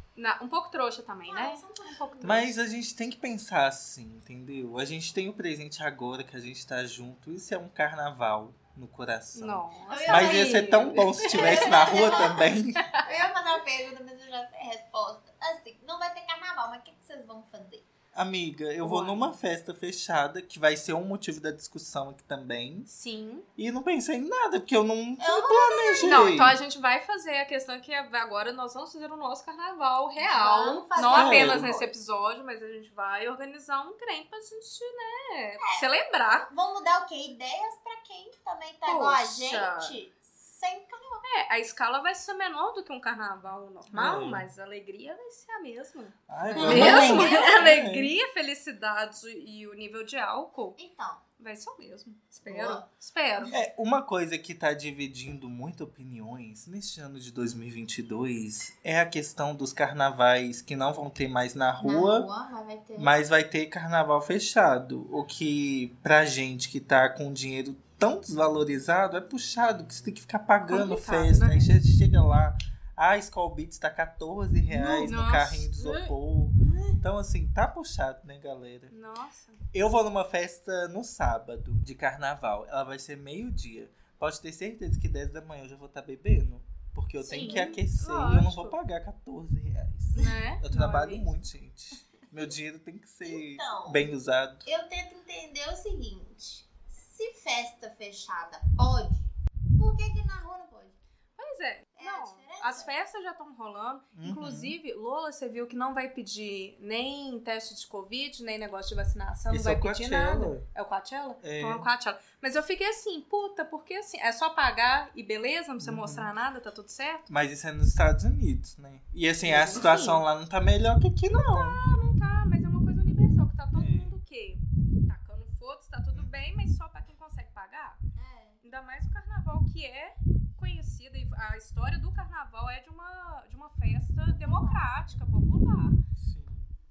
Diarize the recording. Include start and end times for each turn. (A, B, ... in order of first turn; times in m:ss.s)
0:00.2-0:02.5 A
0:01.3-0:02.4 B
0:02.2-0:12.9 C
0:09.3-0:13.1 A
0:09.9-0:17.8 B
0:18.1-0:22.9 C
0:18.8-0:19.3 A
0:22.9-0:23.4 A
0:23.6-0:26.6 C
0:25.2-0:26.4 B
0:26.0-0:36.5 A
0:30.2-0:31.9 B
0:31.1-0:31.9 C
0:36.5-0:41.2 B
0:38.8-0:39.9 A
0:41.2-0:50.8 A
0:43.9-0:44.5 C
0:46.3-0:48.1 C
0:46.5-0:47.7 B
0:50.8-0:51.2 B
0:51.4-0:53.5 A
0:52.4-0:52.8 B
0:53.5-1:02.3 C
1:01.8-1:03.1 B
1:03.0-1:18.9 C
1:10.7-1:11.8 A
1:14.7-1:16.0 A
1:16.6-1:17.0 B
1:18.9-1:19.6 A
1:19.7-1:34.7 C
1:27.2-1:28.8 A
1:27.3-1:27.7 B
1:30.1-1:31.3 A
1:33.2-1:34.1 B
1:34.6-1:41.0 B
1:41.4-1:57.3 A
1:42.0-1:42.9 B
1:44.1-1:44.7 C
1:49.5-1:50.6 C
1:51.4-1:51.9 C
1:55.8-1:56.3 C
1:57.3-2:01.8 C
1:59.4-2:00.2 A
2:01.3-2:08.0 A
2:03.7-2:04.2 C
2:06.1-2:06.6 C
2:08.2-2:08.6 B
2:08.6-2:16.0 A
2:14.3-2:15.2 B
2:16.2-2:16.7 C